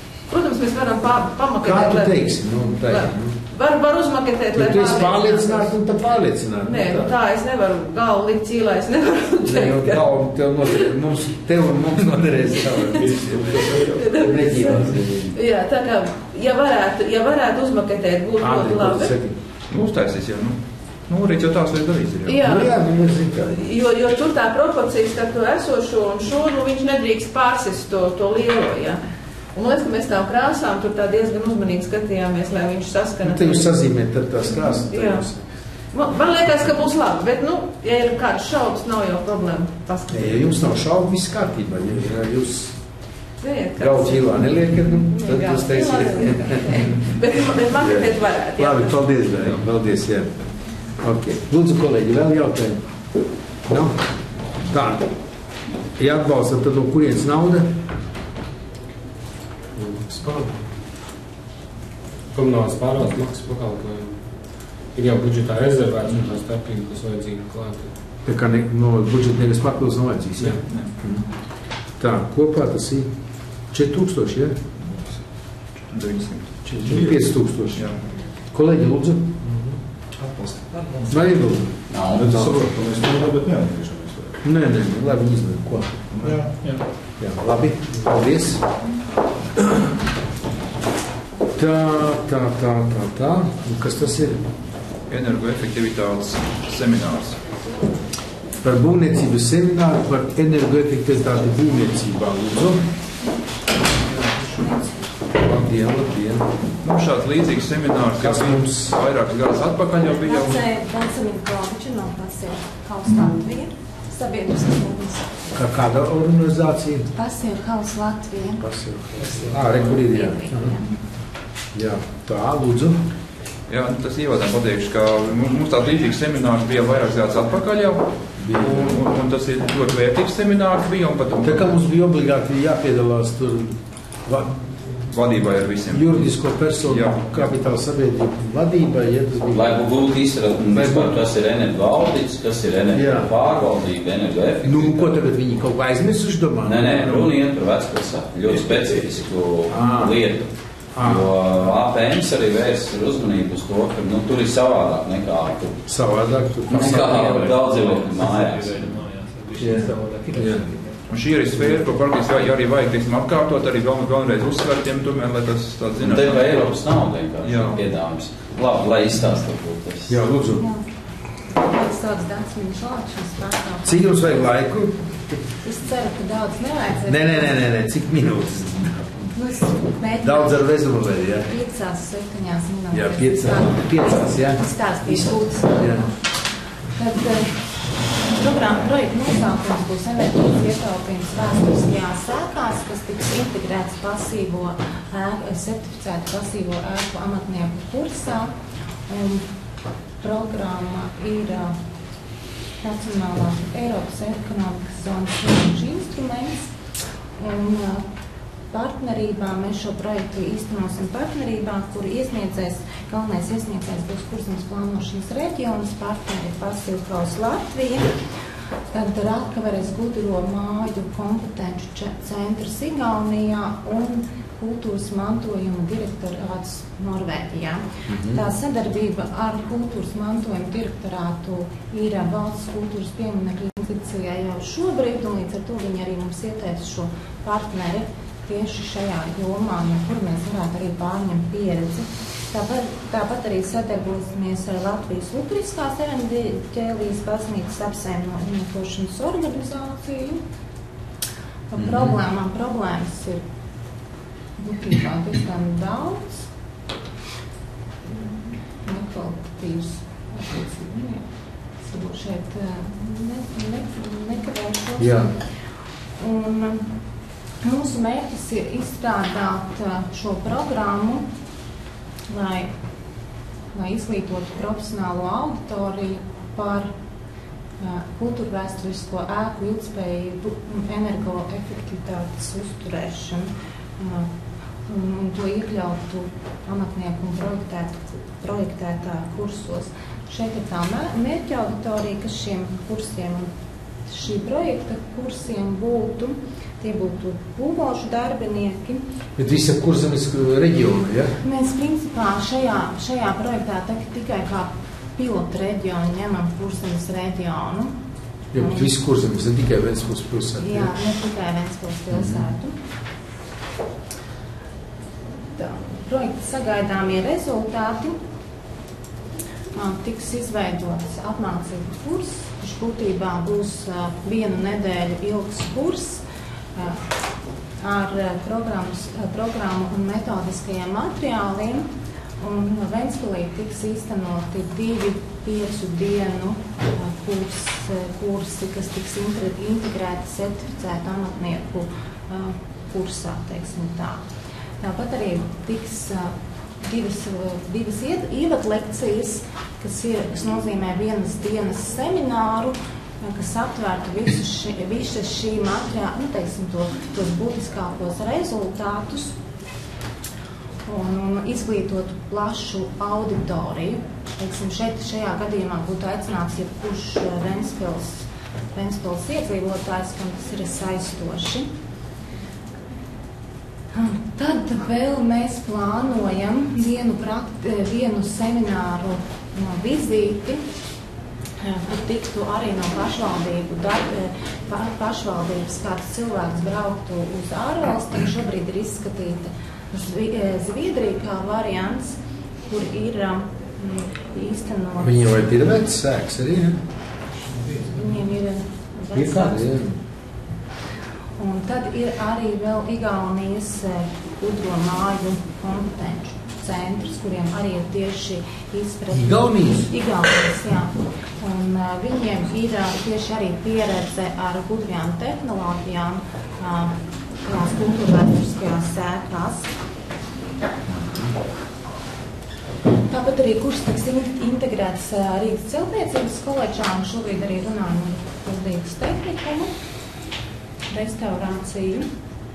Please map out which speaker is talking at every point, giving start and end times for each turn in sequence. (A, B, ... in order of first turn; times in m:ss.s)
0:00.3-0:02.2 A
0:01.6-0:03.4 B
0:02.9-0:05.8 A
0:04.6-0:07.1 B
0:06.6-0:10.2 A
0:09.4-0:15.3 B
0:12.7-0:13.0 A
0:13.9-0:19.1 A
0:18.4-0:19.4 B
0:19.7-0:22.4 C
0:22.2-0:22.8 A
0:22.4-0:23.6 B
0:23.4-0:29.0 A
0:29.6-0:33.8 A
0:33.2-0:35.4 B
0:34.5-0:35.3 A
0:35.9-0:40.5 A
0:40.1-0:42.8 B
0:43.4-0:49.3 A
0:43.8-0:47.1 B
0:47.7-0:50.4 B
0:51.0-0:52.9 B
0:53.7-0:54.0 B
0:54.5-0:55.1 B
0:56.0-0:57.7 B
0:59.8-1:00.5 D
1:02.3-1:07.9 D
1:08.2-1:11.2 B
1:10.4-1:10.9 C
1:12.0-1:13.1 B
1:13.7-1:14.6 B
1:15.9-1:16.8 C
1:16.7-1:18.0 B
1:16.8-1:17.3 E
1:17.7-1:18.0 C
1:18.5-1:19.3 B
1:21.1-1:22.6 B
1:21.9-1:22.2 F
1:22.1-1:24.4 E
1:24.4-1:26.4 B
1:26.1-1:26.4 E
1:26.6-1:26.9 G
1:27.2-1:28.6 B
1:31.6-1:34.4 B
1:35.1-1:37.4 C
1:38.6-1:42.8 B
1:45.3-1:46.5 B
1:46.8-1:50.6 C
1:48.2-1:48.9 B
1:50.2-1:55.4 H
1:55.5-1:57.1 B
1:57.2-1:58.6 H
1:58.6-2:00.8 B
1:59.2-2:00.0 G
1:59.5-2:00.9 H
2:01.7-2:03.0 B
2:03.7-2:11.8 C
2:08.4-2:09.0 B
2:11.4-2:14.6 B
2:15.1-2:17.6 C
2:15.9-2:19.9 B
2:19.5-2:25.2 F
2:20.7-2:21.2 B
2:22.9-2:23.4 B
2:24.6-2:27.3 B
2:26.6-2:30.5 F
2:29.7-2:30.2 B
2:30.9-2:31.4 B
2:31.0-2:35.8 F
2:35.9-2:37.6 B
2:36.7-2:39.0 F
2:36.7-2:41.0 G
2:39.6-2:40.7 B
2:41.1-2:46.7 C
2:46.0-2:50.2 F
2:47.4-2:47.8 C
2:50.1-2:50.7 B
2:50.6-2:50.8 H
2:51.5-2:54.4 H
2:53.8-2:55.4 B
2:55.6-2:57.6 H
2:57.1-2:59.2 B
2:59.4-3:00.6 H
3:00.2-3:01.5 B
3:01.4-3:06.1 H
3:02.9-3:06.1 B
3:06.9-3:07.5 H
3:08.3-3:18.5 H
3:19.1-3:19.4 H
3:20.2-3:21.8 H
3:22.8-3:26.7 H
3:27.4-3:28.0 H
3:28.7-3:38.2 H
3:38.9-4:10.4 H
3:48.1-3:48.4 B
4:11.7-4:13.4 H
4:11.8-4:12.2 B
4:14.6-4:16.5 H
4:18.1-4:21.2 H
4:21.8-4:25.3 H
4:25.0-4:25.3 B
4:26.2-4:26.9 H
4:27.6-4:31.2 H
4:32.3-4:32.7 H
4:33.7-4:36.9 H
4:37.8-4:44.3 H
4:44.9-4:53.5 H
4:54.1-4:59.0 H
4:59.4-5:01.4 B
5:01.4-5:07.9 H
5:08.5-5:10.9 B
5:08.6-5:08.9 H
5:10.6-5:12.8 H
5:12.1-5:12.5 B
5:15.6-5:18.2 H
5:19.8-5:26.2 H
5:26.8-5:27.0 H
5:27.8-5:31.9 H
5:32.4-5:44.2 H
5:44.8-5:59.4 H
6:00.9-6:11.7 H
6:13.9-6:20.6 H
6:21.6-6:32.2 H
6:32.7-6:35.3 H
6:35.0-6:36.8 B
6:37.5-6:38.2 G
6:37.9-6:39.8 H
6:39.1-6:40.0 B
6:41.4-6:59.7 H
6:49.1-6:49.9 B
7:03.1-7:09.7 H
7:10.9-7:12.1 H